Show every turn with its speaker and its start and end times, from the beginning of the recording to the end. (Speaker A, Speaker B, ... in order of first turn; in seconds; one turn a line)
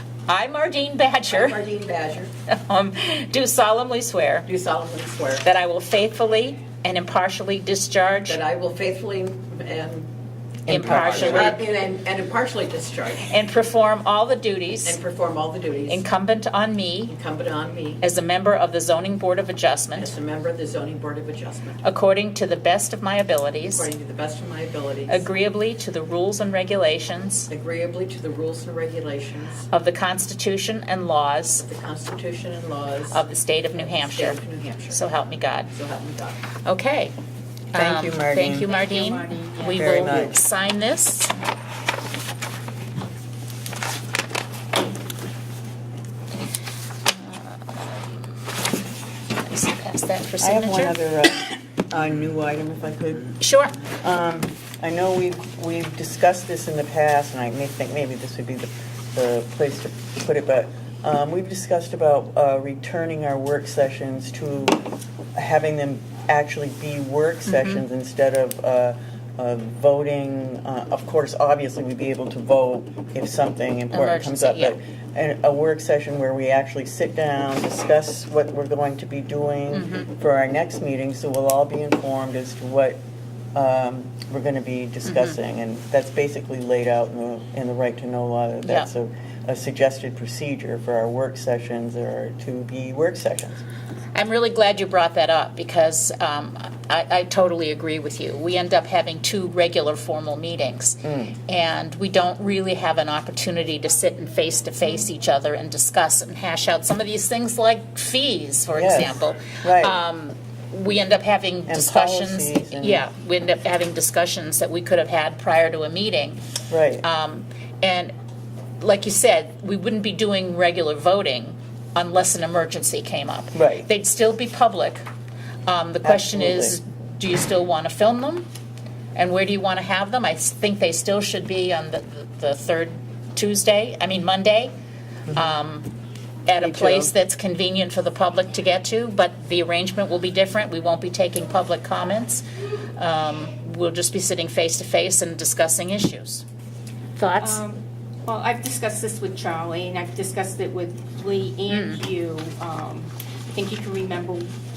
Speaker A: 0.3-1.6
Speaker B: 1.3-2.3
Speaker A: 2.5-4.5
Speaker B: 4.5-5.5
Speaker A: 5.4-8.4
Speaker B: 8.3-10.1
Speaker C: 10.7-11.6
Speaker A: 10.7-11.6
Speaker B: 11.0-13.3
Speaker A: 13.2-15.0
Speaker B: 14.8-16.0
Speaker A: 15.9-17.1
Speaker B: 17.1-18.0
Speaker A: 18.0-20.1
Speaker B: 20.0-21.8
Speaker A: 21.8-23.9
Speaker B: 23.7-25.2
Speaker A: 25.1-27.5
Speaker B: 27.5-29.6
Speaker A: 29.7-31.6
Speaker B: 31.6-33.2
Speaker A: 33.1-35.7
Speaker B: 33.8-35.0
Speaker B: 35.7-36.4
Speaker A: 36.6-37.1
Speaker A: 37.7-41.3
Speaker C: 37.8-38.7
Speaker D: 38.7-40.1
Speaker C: 39.7-40.4
Speaker A: 47.1-48.2
Speaker A: 49.4-51.0
Speaker C: 50.4-83.0
Speaker A: 53.4-53.8
Speaker A: 67.5-67.8
Speaker A: 73.9-74.8
Speaker A: 79.7-80.1
Speaker C: 83.5-93.6
Speaker A: 85.0-85.4
Speaker A: 88.6-88.9
Speaker A: 94.2-116.4
Speaker C: 101.0-101.4
Speaker C: 108.7-110.0
Speaker C: 111.7-113.1
Speaker C: 116.7-117.0
Speaker A: 117.0-118.1
Speaker A: 118.8-125.0
Speaker C: 123.5-123.9
Speaker A: 125.7-128.5
Speaker C: 126.0-126.8
Speaker A: 129.2-134.7
Speaker A: 135.3-135.9
Speaker A: 136.5-142.4
Speaker C: 136.6-137.1
Speaker A: 143.0-146.4
Speaker A: 147.2-147.6
Speaker D: 147.4-154.5
Speaker A: 151.7-152.0